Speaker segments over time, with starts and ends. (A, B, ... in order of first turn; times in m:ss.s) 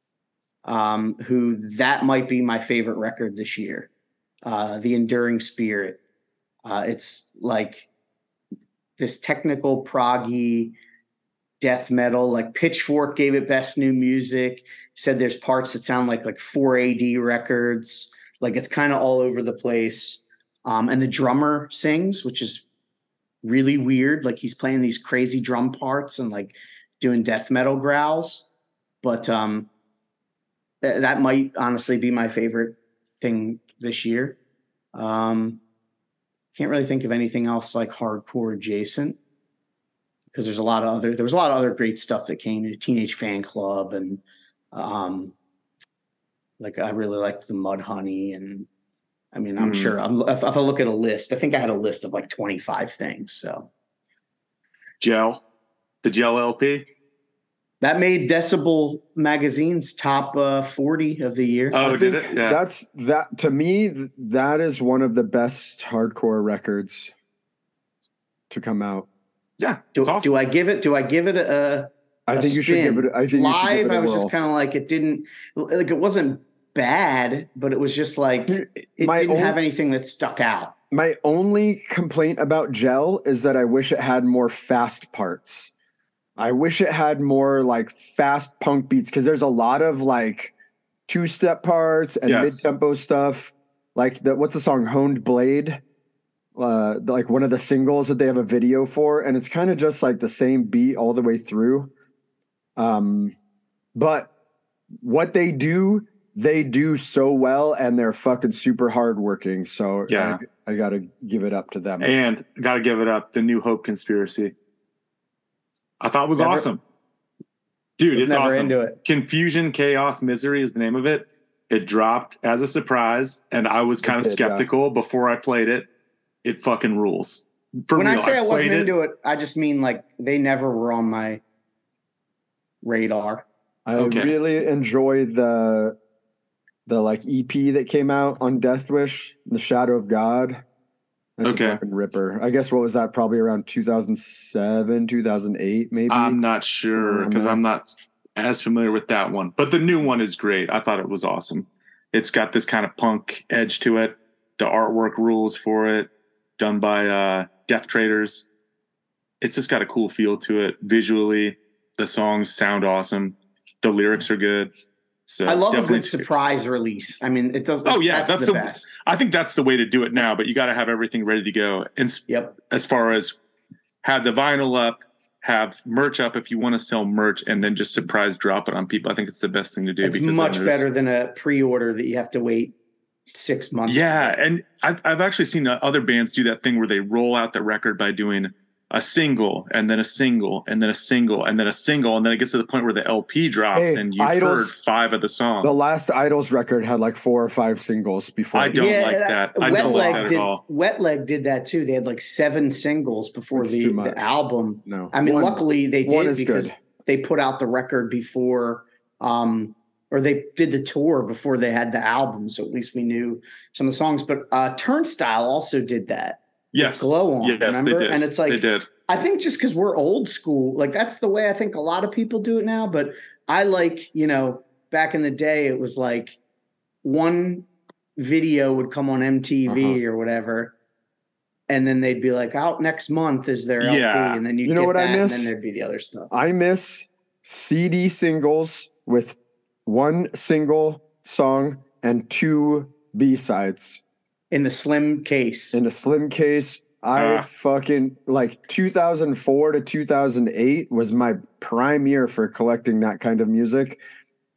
0:00.6-0:03.9 A
0:04.4-0:06.0 A
0:06.6-0:07.9 A
0:09.0-0:10.8 A
0:11.6-0:22.7 A
0:23.4-0:28.5 A
0:29.0-0:29.7 A
0:30.8-0:34.4 A
0:35.0-0:35.6 A
0:36.6-0:39.2 A
0:40.3-0:45.4 A
0:46.6-0:48.7 A
0:49.3-0:53.7 A
0:49.6-0:50.0 B
0:55.0-0:55.4 B
0:56.0-0:56.9 B
0:57.8-1:01.8 A
1:01.7-1:02.6 B
1:01.8-1:07.1 C
1:08.5-1:09.1 C
1:09.6-1:10.3 B
1:10.0-1:20.8 A
1:12.3-1:14.3 C
1:18.5-1:19.6 C
1:20.9-1:25.7 C
1:26.4-1:30.5 C
1:31.1-1:35.8 C
1:32.3-1:32.7 B
1:36.6-1:41.9 C
1:42.8-1:43.4 C
1:44.0-1:44.3 C
1:45.0-1:52.1 C
1:50.1-1:50.4 B
1:52.0-1:54.5 B
1:56.0-1:56.8 B
1:56.4-1:56.7 A
1:58.0-2:05.9 B
1:58.1-1:59.0 A
2:04.0-2:04.7 C
2:06.4-2:08.9 B
2:07.9-2:11.4 A
2:12.8-2:13.5 A
2:13.9-2:16.0 C
2:14.0-2:14.3 B
2:16.9-2:20.6 C
2:21.4-2:26.4 C
2:21.4-2:21.8 B
2:26.1-2:38.5 B
2:27.0-2:27.6 C
2:39.4-2:44.7 B
2:45.3-2:46.3 B
2:45.5-2:48.9 A
2:47.8-2:53.4 B
2:52.3-2:52.6 A
2:54.0-3:00.8 B
3:00.0-3:02.8 A
3:03.3-3:04.4 A
3:03.9-3:15.9 B
3:13.7-3:14.7 C
3:15.6-3:19.0 C
3:18.5-3:20.6 B
3:18.8-3:46.4 A
3:19.7-3:20.3 C
3:23.6-3:24.3 C
3:24.9-3:26.8 C
3:36.7-3:38.9 B
3:47.0-3:50.7 A
3:49.7-3:50.0 C
3:51.7-3:56.3 A
3:53.8-3:54.4 B
3:54.6-3:55.5 C
3:56.3-4:04.0 C
4:04.5-4:05.8 A
4:05.7-4:14.0 C
4:07.1-4:07.5 B